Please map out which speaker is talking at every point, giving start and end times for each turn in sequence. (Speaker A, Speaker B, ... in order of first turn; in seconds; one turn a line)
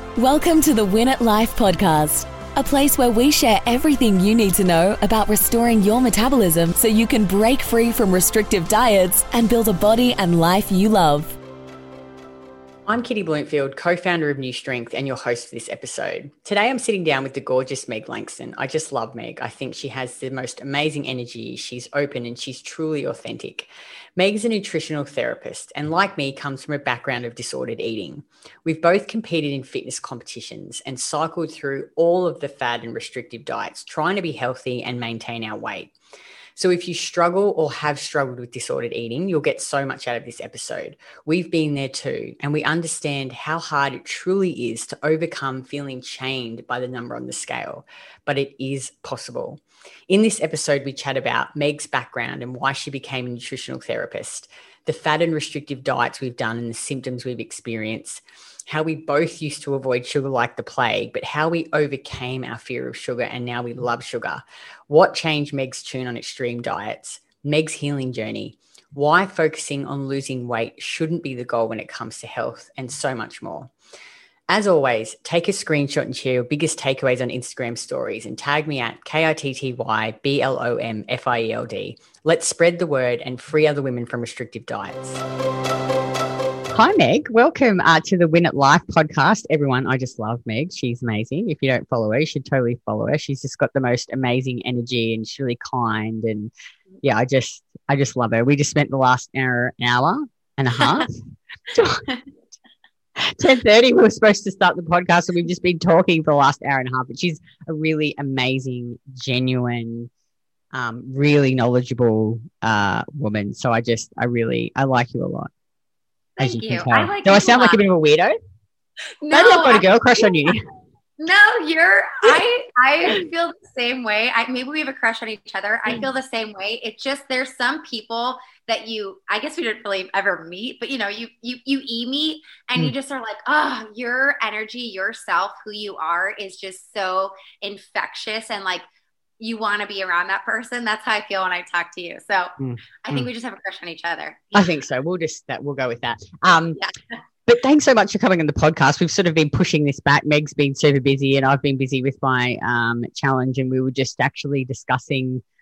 Speaker A: 0.2-11.4
Speaker B: 12.9-35.9
Speaker B: 36.5-73.7
Speaker B: 74.5-85.2
Speaker B: 86.7-96.5
Speaker B: 97.0-102.1
Speaker B: 103.2-110.1
Speaker B: 110.7-115.5
Speaker C: 116.4-117.8
Speaker B: 116.4-118.3
Speaker C: 119.2-120.5
Speaker B: 119.3-120.6
Speaker C: 121.2-138.8
Speaker C: 139.4-144.7
Speaker B: 142.6-143.3
Speaker B: 144.5-146.8
Speaker B: 147.5-155.4